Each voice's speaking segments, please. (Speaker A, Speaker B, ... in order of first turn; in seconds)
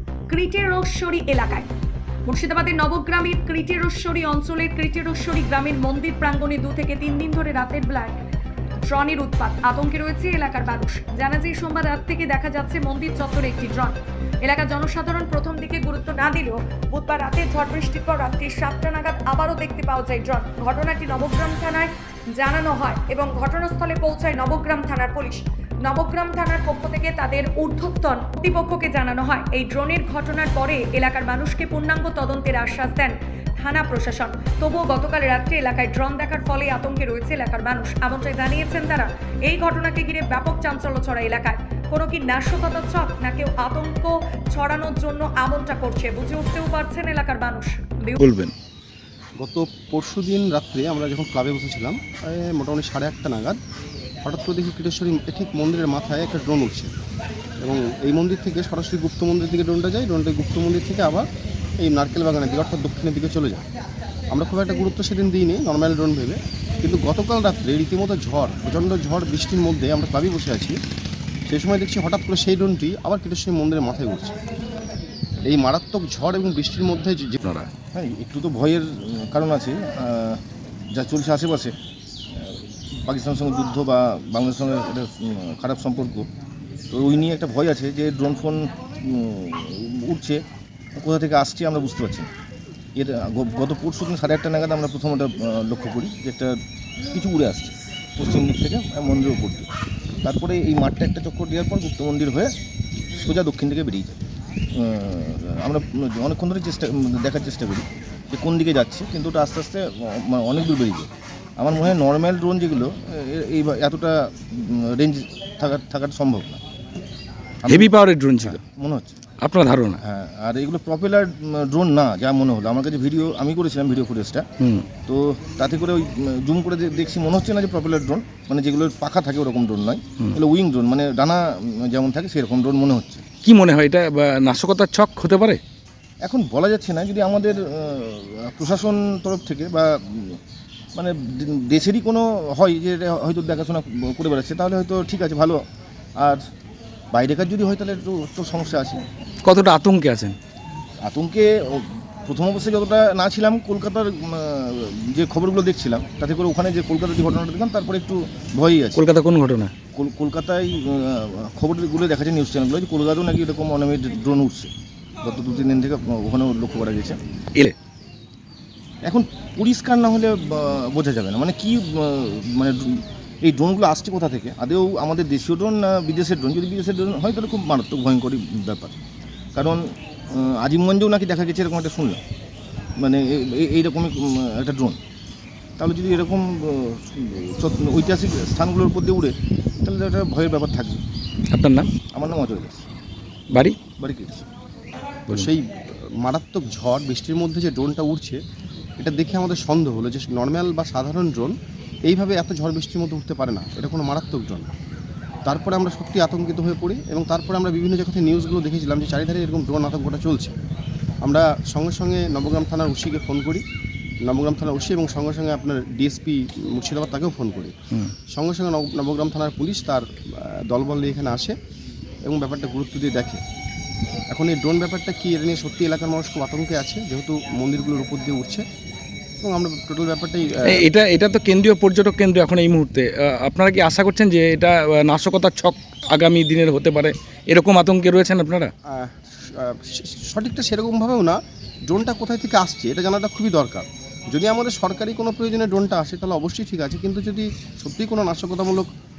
Speaker A: 0.3-1.7, 2.2-8.2, 8.8-48.2
Speaker B: 48.2-48.5, 77.4-77.7, 117.7-118.6, 119.4-120.0, 124.6-124.8, 133.4-135.6, 149.4-150.3, 158.9-159.7, 191.5-191.9, 230.6-238.7
Speaker C: 49.4-53.6, 54.2-56.9, 57.6-61.3, 61.8-63.6, 64.3-70.8, 71.5-74.3, 75.4-77.4, 195.3-198.4, 199.0-204.7, 205.4-210.5, 211.2-213.6, 214.2-217.7, 218.3-221.5, 222.2-223.4, 224.3-228.6, 229.4-230.9, 238.8-248.9
Speaker D: 77.9-81.7, 82.3-86.3, 86.9-90.4, 91.0-92.3, 92.9-96.6, 97.1-99.7, 100.2-102.5, 103.1-104.2, 104.7-116.6, 117.6-119.2, 120.0-124.5, 125.0-133.2, 136.2-140.4, 140.9-145.6, 147.1-149.0, 151.0-159.0, 159.9-164.7, 165.2-167.2, 169.0-179.0, 179.5-182.2, 183.0-185.0, 185.8-191.0, 192.1-192.8, 193.9-194.4